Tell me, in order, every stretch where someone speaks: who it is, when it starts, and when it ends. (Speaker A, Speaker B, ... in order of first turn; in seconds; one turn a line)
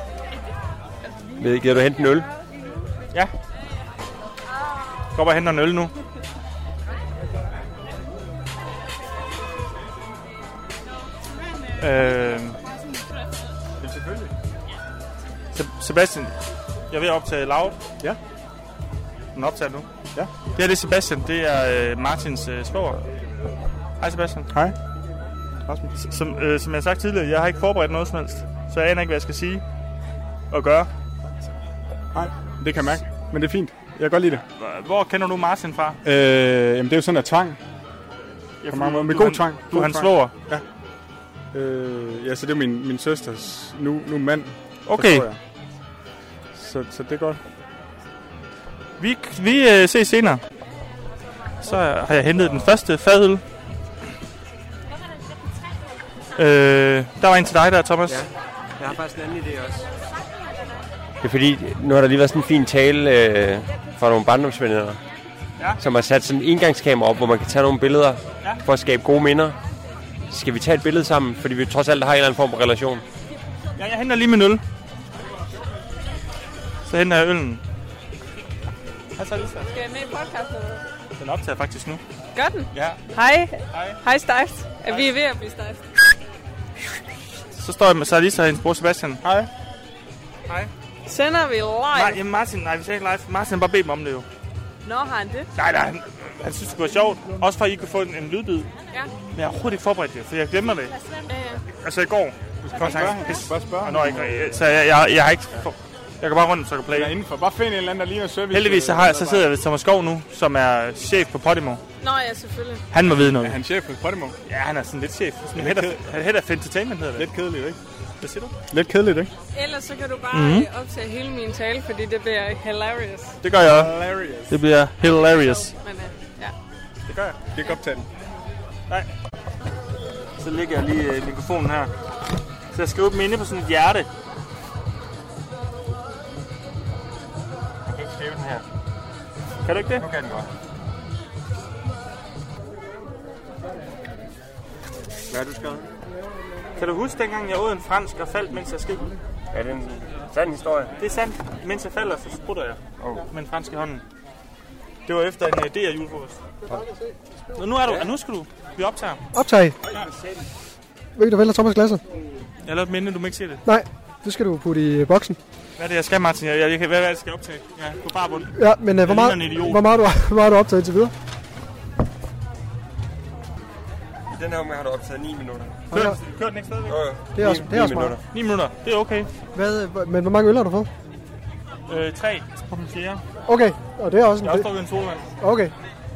Speaker A: 1.4-2.3
Speaker B: 5.1-5.9
Speaker B: 11.8-12.6
Speaker C: 13.8-14.3
Speaker B: 15.5-16.3
Speaker B: 16.9-17.8
Speaker B: 19.3-19.9
Speaker B: 20.5-23.1
Speaker B: 24.0-24.5
Speaker C: 24.5-24.8
Speaker B: 25.9-29.6
Speaker B: 30.5-30.9
Speaker C: 32.1-34.4
Speaker B: 34.5-36.0
Speaker C: 36.0-37.6
Speaker B: 38.6-40.3
Speaker C: 38.7-40.6
Speaker C: 41.5-45.4
Speaker B: 44.9-45.3
Speaker C: 46.5-47.4
Speaker B: 49.0-50.4
Speaker B: 51.6-53.4
Speaker B: 56.4-58.2
Speaker A: 58.1-59.9
Speaker A: 61.2-65.0
Speaker A: 65.8-69.5
Speaker A: 70.3-73.0
Speaker B: 73.8-74.6
Speaker B: 76.8-77.6
Speaker B: 79.2-79.7
Speaker D: 79.7-80.8
Speaker B: 81.2-82.0
Speaker D: 82.3-85.8
Speaker B: 83.7-84.0
Speaker B: 84.8-85.1
Speaker B: 87.5-89.5
Speaker D: 91.0-92.2
Speaker B: 91.9-94.2
Speaker D: 94.8-95.5
Speaker B: 95.5-98.7
Speaker B: 99.3-100.9
Speaker D: 101.2-101.6
Speaker B: 101.8-107.1
Speaker C: 102.7-104.7
Speaker C: 106.9-109.5
Speaker B: 108.5-111.8
Speaker D: 112.0-112.8
Speaker B: 112.9-113.6
Speaker C: 113.1-114.3
Speaker B: 114.5-117.3
Speaker C: 115.5-116.0
Speaker C: 117.2-117.8
Speaker B: 118.2-118.5
Speaker C: 118.7-119.3
Speaker D: 119.5-123.4
Speaker B: 120.3-120.7
Speaker B: 123.4-123.9
Speaker C: 123.6-124.6
Speaker B: 124.5-125.7
Speaker D: 125.3-126.5
Speaker B: 127.1-127.4
Speaker C: 127.5-128.1
Speaker B: 130.4-131.9
Speaker B: 132.7-134.1
Speaker A: 137.8-138.6
Speaker B: 139.6-140.0
Speaker A: 140.0-140.5
Speaker A: 145.3-145.9
Speaker B: 146.8-149.1
Speaker A: 149.5-150.9
Speaker B: 151.0-152.8
Speaker A: 153.0-153.3
Speaker B: 153.3-154.0
Speaker B: 155.1-156.4
Speaker E: 156.6-157.6
Speaker B: 157.6-159.2
Speaker A: 157.8-158.1
Speaker E: 159.3-159.8
Speaker E: 161.1-162.0
Speaker B: 162.6-163.6
Speaker E: 163.6-165.4
Speaker B: 165.8-169.8
Speaker E: 168.5-171.1
Speaker A: 174.3-175.9
Speaker E: 175.9-176.2
Speaker B: 175.9-176.9
Speaker A: 176.9-178.2
Speaker E: 177.3-178.2
Speaker B: 178.3-179.3
Speaker E: 179.5-180.9
Speaker B: 181.9-183.2
Speaker E: 183.4-184.8
Speaker B: 184.4-185.2
Speaker E: 185.4-185.7